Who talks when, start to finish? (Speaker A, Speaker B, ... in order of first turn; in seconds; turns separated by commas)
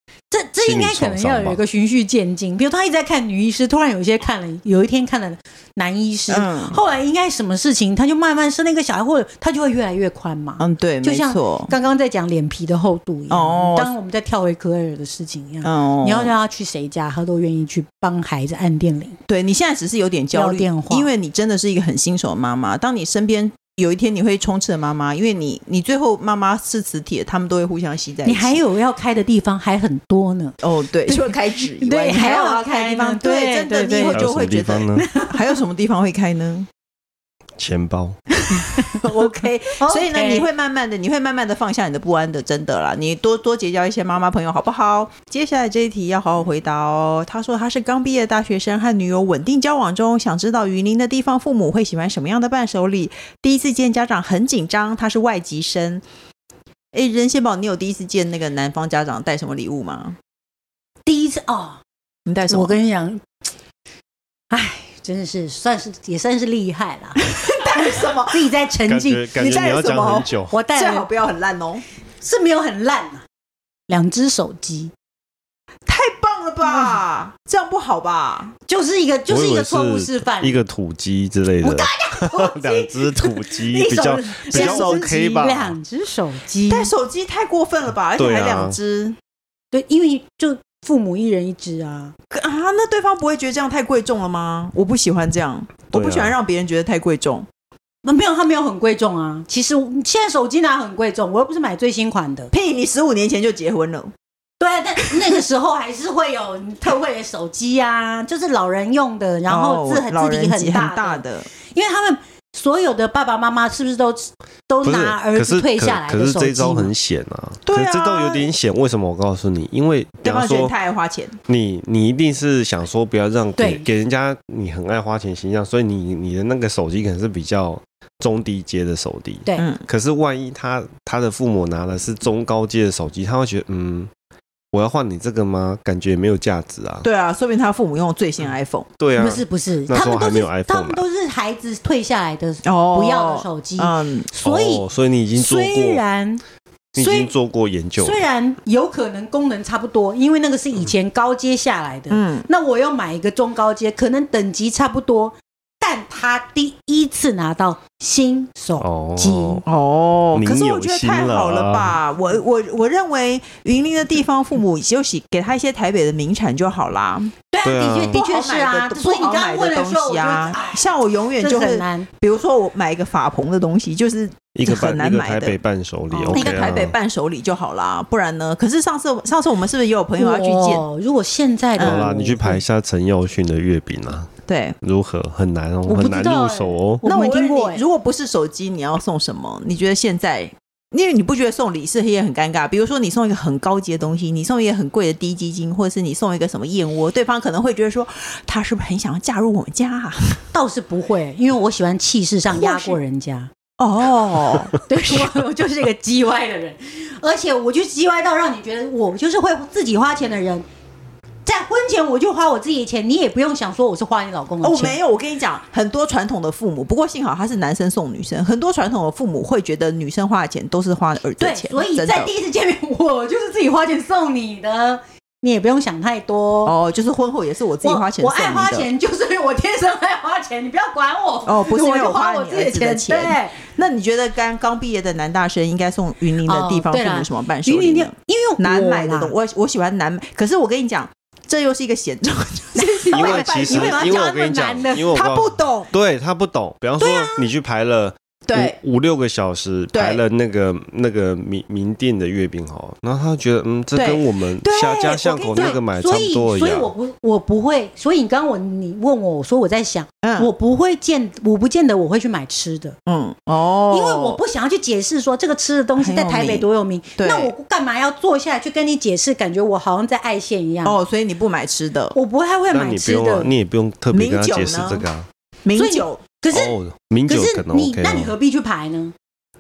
Speaker A: 0.3-19.2, Speaker B: 0.6-1.6, Speaker C: 6.3-6.8, Speaker C: 10.6-11.7, Speaker C: 13.3-13.9, Speaker C: 15.6-16.3, Speaker C: 19.3-28.6, Speaker A: 20.3-21.1, Speaker A: 28.2-34.4, Speaker C: 30.6-36.7, Speaker B: 34.1-35.1, Speaker A: 34.9-35.3, Speaker B: 37.6-38.1, Speaker C: 38.5-56.0, Speaker A: 39.8-40.5, Speaker C: 56.9-60.2, Speaker A: 61.0-61.8, Speaker C: 62.2-62.8, Speaker A: 62.5-63.2, Speaker A: 64.5-69.5, Speaker C: 67.2-68.5, Speaker B: 68.8-70.6, Speaker C: 69.3-71.8, Speaker A: 70.5-71.1, Speaker A: 72.2-73.2, Speaker A: 73.9-74.9, Speaker C: 75.8-78.5, Speaker A: 76.6-77.0, Speaker A: 78.7-80.6, Speaker B: 79.3-85.8, Speaker A: 81.6-86.9, Speaker C: 84.5-85.1, Speaker C: 86.7-89.2, Speaker B: 88.2-88.8, Speaker A: 89.7-92.1, Speaker C: 92.3-97.5, Speaker B: 95.9-96.3, Speaker A: 98.0-102.5, Speaker C: 102.5-104.1, Speaker A: 104.6-116.9, Speaker C: 105.0-105.3, Speaker C: 109.5-111.5, Speaker B: 114.8-120.7, Speaker C: 117.7-118.5, Speaker C: 120.2-121.4, Speaker B: 121.5-134.1, Speaker A: 123.6-123.8, Speaker C: 129.6-129.8, Speaker B: 134.7-137.1, Speaker C: 137.0-138.9, Speaker B: 139.0-141.0, Speaker A: 139.2-146.4, Speaker C: 142.6-144.3, Speaker B: 144.4-146.0, Speaker B: 146.9-148.2, Speaker A: 147.0-147.3, Speaker A: 148.0-159.6, Speaker C: 152.1-152.5, Speaker B: 158.8-159.6, Speaker C: 159.7-167.3, Speaker B: 160.3-162.0, Speaker A: 167.5-172.1, Speaker B: 167.6-168.2, Speaker C: 168.1-175.6, Speaker B: 174.5-176.9, Speaker C: 176.1-180.8, Speaker A: 176.3-176.6, Speaker A: 180.1-182.6, Speaker C: 181.8-182.1, Speaker B: 181.8-184.3, Speaker C: 184.5-184.8, Speaker B: 184.8-187.0, Speaker A: 185.9-187.8, Speaker C: 187.0-200.4, Speaker A: 200.5-203.5, Speaker C: 202.5-203.0, Speaker C: 203.8-205.3, Speaker A: 204.8-210.7, Speaker A: 211.4-215.0, Speaker C: 214.6-222.3, Speaker A: 221.4-226.7, Speaker C: 226.6-228.9, Speaker A: 227.8-233.6, Speaker C: 231.4-244.3, Speaker A: 236.4-239.3, Speaker A: 242.7-245.1, Speaker B: 243.1-256.9, Speaker C: 245.0-245.9, Speaker A: 247.0-247.4, Speaker C: 248.5-248.8, Speaker C: 249.9-250.2, Speaker C: 253.9-255.8, Speaker A: 255.2-263.0, Speaker C: 260.2-260.5, Speaker C: 263.1-264.4, Speaker A: 263.9-271.0, Speaker C: 266.0-267.5, Speaker C: 270.8-272.1, Speaker A: 272.1-273.5, Speaker B: 272.7-275.3, Speaker C: 274.1-275.1, Speaker C: 275.6-276.2, Speaker A: 275.7-276.7, Speaker B: 276.5-278.3, Speaker A: 277.3-279.1